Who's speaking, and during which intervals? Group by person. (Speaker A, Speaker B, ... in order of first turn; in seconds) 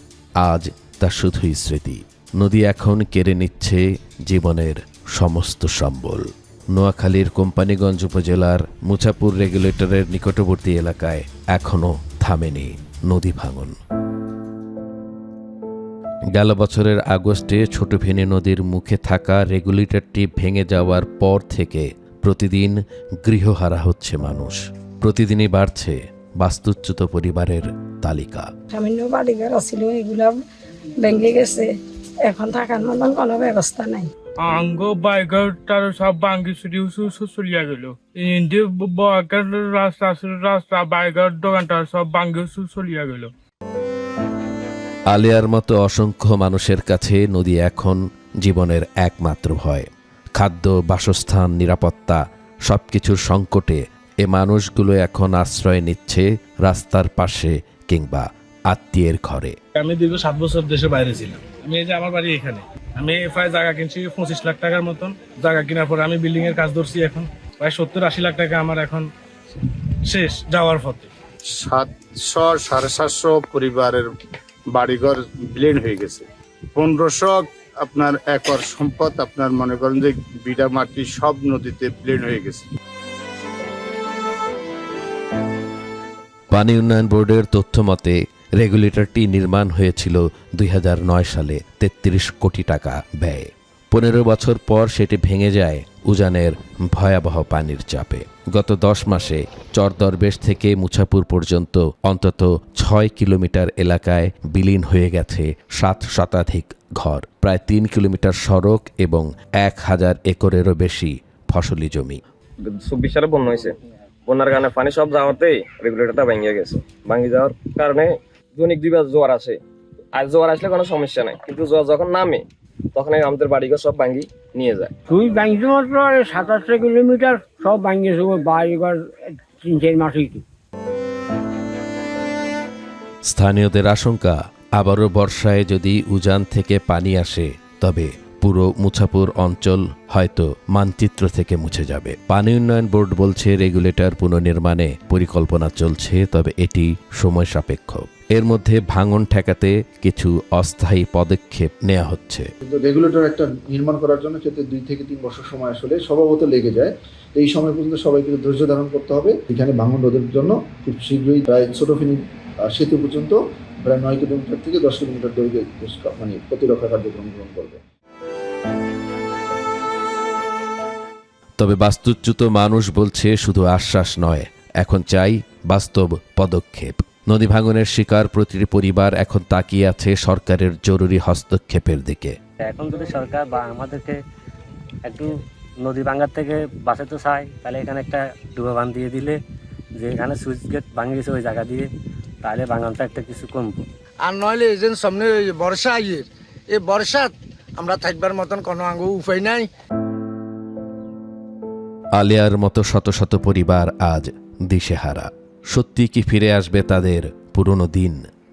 Speaker A: 0.4-13.8, 16.3-28.5, 45.1-59.6, 86.5-112.2, 133.3-152.5, 171.6-182.3, 202.2-208.2
Speaker B: 28.7-30.4, 31.0-31.7, 32.2-34.1
Speaker C: 34.4-43.3
Speaker D: 59.8-69.1, 70.1-71.1
Speaker E: 71.5-74.1, 74.7-82.7
Speaker F: 112.6-113.8, 114.3-119.6, 120.1-124.9
Speaker G: 125.1-130.4
Speaker H: 152.6-167.8
Speaker I: 182.7-184.2, 185.1-189.4, 190.0-191.9, 192.4-193.8
Speaker J: 194.2-199.7